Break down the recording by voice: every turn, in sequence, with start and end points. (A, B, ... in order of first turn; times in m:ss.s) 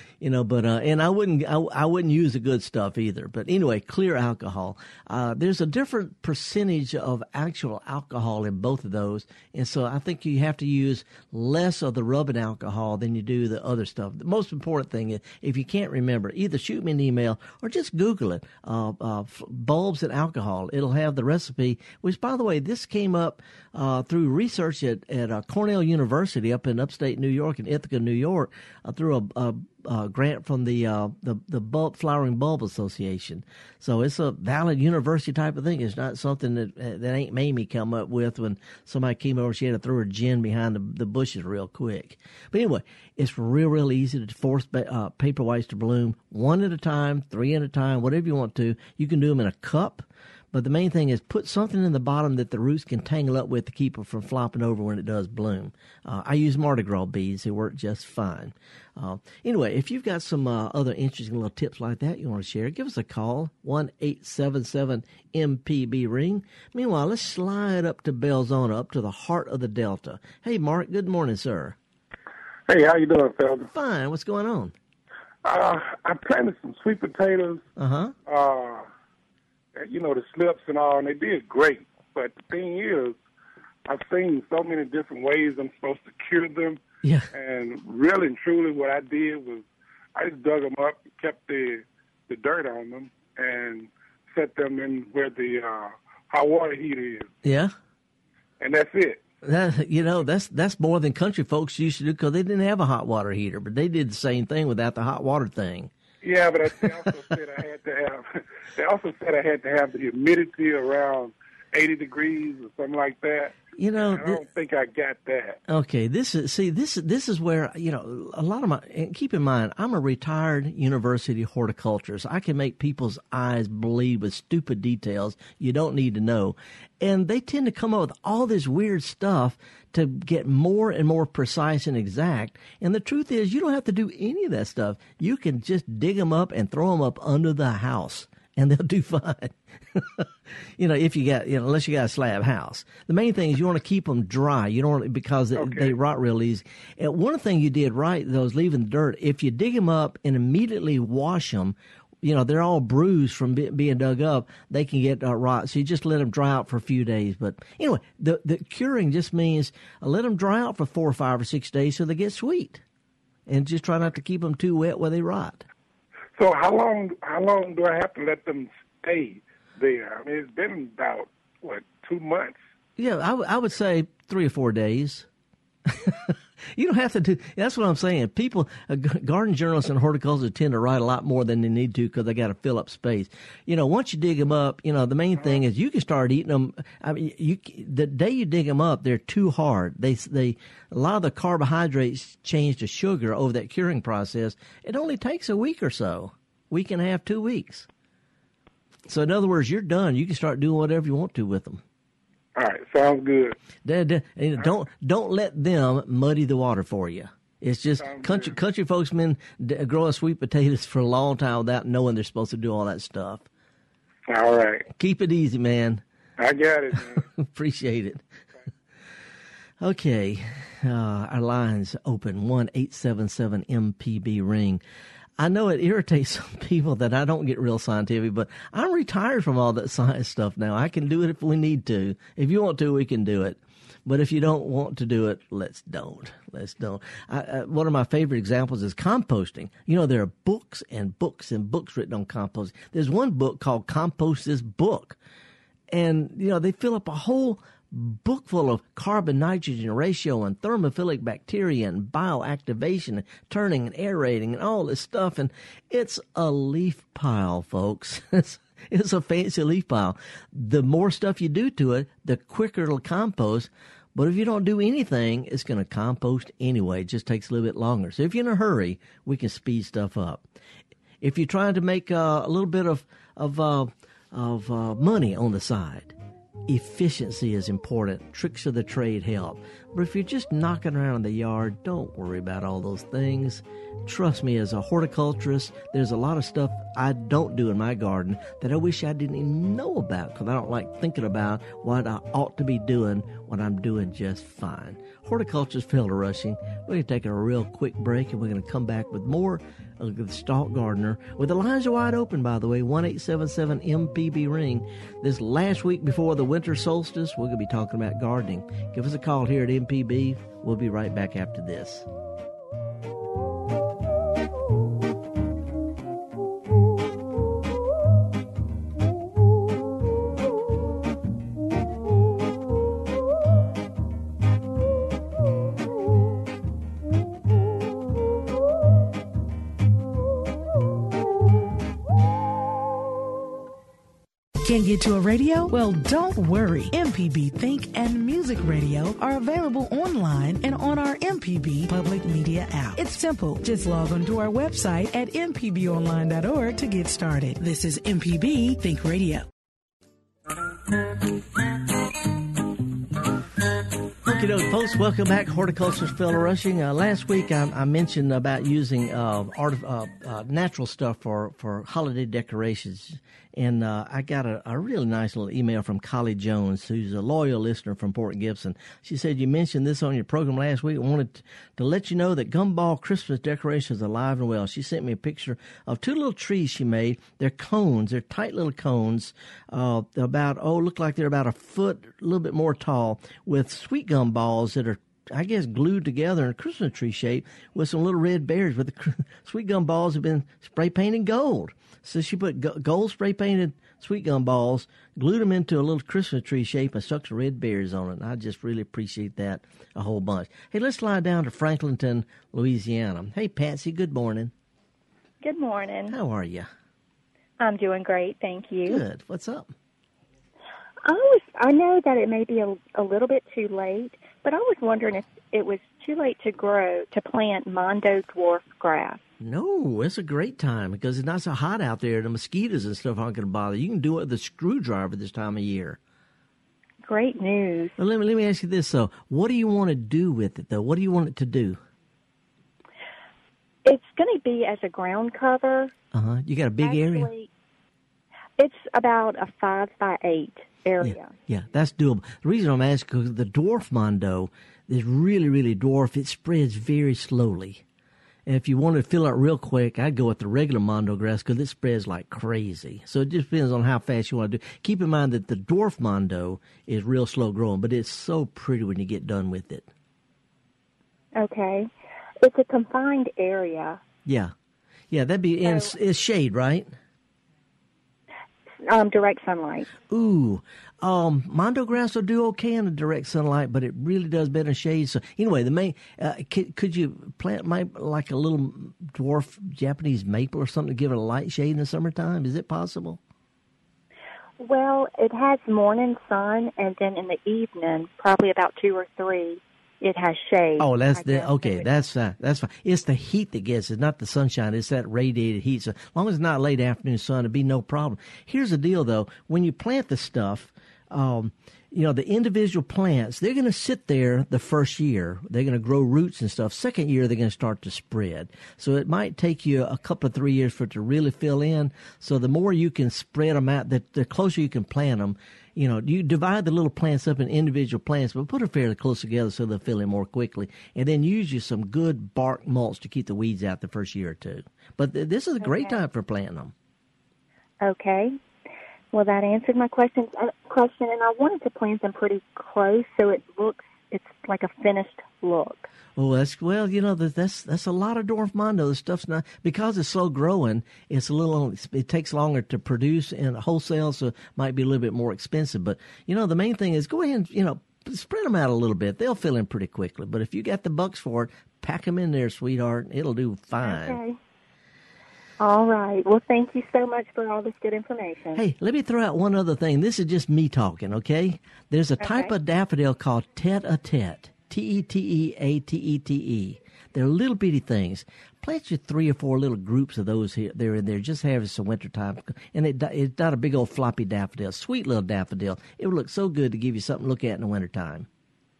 0:00.2-1:11.8 A
1:12.7-1:13.7 B
1:13.7-1:14.7 A
1:15.4-1:17.6 B
1:17.8-1:18.1 A
1:18.3-1:18.9 B
1:19.8-1:23.2 B
1:23.9-1:26.8 B
1:27.3-1:37.3 B
1:37.4-1:37.7 A
1:38.6-1:39.2 B
1:39.4-1:45.9 A
1:46.2-1:55.6 B
1:53.8-1:54.4 A
1:55.7-2:20.2 A
2:20.8-2:42.8 A
2:25.6-2:25.9 B
2:43.5-2:45.6 A
2:46.4-2:52.6 B
2:53.0-2:55.2 A
2:55.9-3:17.9 A
3:19.1-3:21.8 A
3:22.6-3:23.6 B
3:23.8-3:33.4 A
3:28.0-3:28.6 B
3:34.3-3:34.9 B
3:35.0-3:36.0 A
3:36.4-3:37.2 B
3:37.4-3:38.2 A
3:39.8-3:44.8 A
3:45.4-4:05.2 A
4:05.9-4:30.4 A
4:31.2-4:36.1 A
4:36.7-5:12.0 A
5:34.6-5:49.4 C
5:54.2-6:44.5 A
6:45.4-6:46.2 D
6:46.1-6:46.7 A
6:47.6-6:49.0 D
6:48.8-6:49.7 A
6:51.0-6:59.2 D
6:59.4-7:06.0 A
7:07.0-7:07.9 D
7:08.0-7:11.8 A
7:13.8-7:15.9 D
7:16.1-7:17.3 A
7:16.8-7:17.5 D
7:18.6-7:21.3 D
7:21.0-7:27.8 A
7:28.4-7:39.9 A
7:41.3-7:41.9 D
7:42.4-7:44.0 D
7:44.2-7:44.5 A
7:45.1-7:46.9 A
7:45.6-7:45.9 D
7:48.8-7:49.9 D
7:50.1-8:03.2 A
8:04.6-8:11.9 D
8:10.8-8:46.7 A
8:45.6-8:46.0 D
8:47.8-8:48.4 D
8:49.1-8:55.9 D
8:56.2-9:14.2 A
9:13.8-9:14.4 D
9:15.6-9:18.6 D
9:18.5-9:38.3 A
9:22.2-9:22.5 D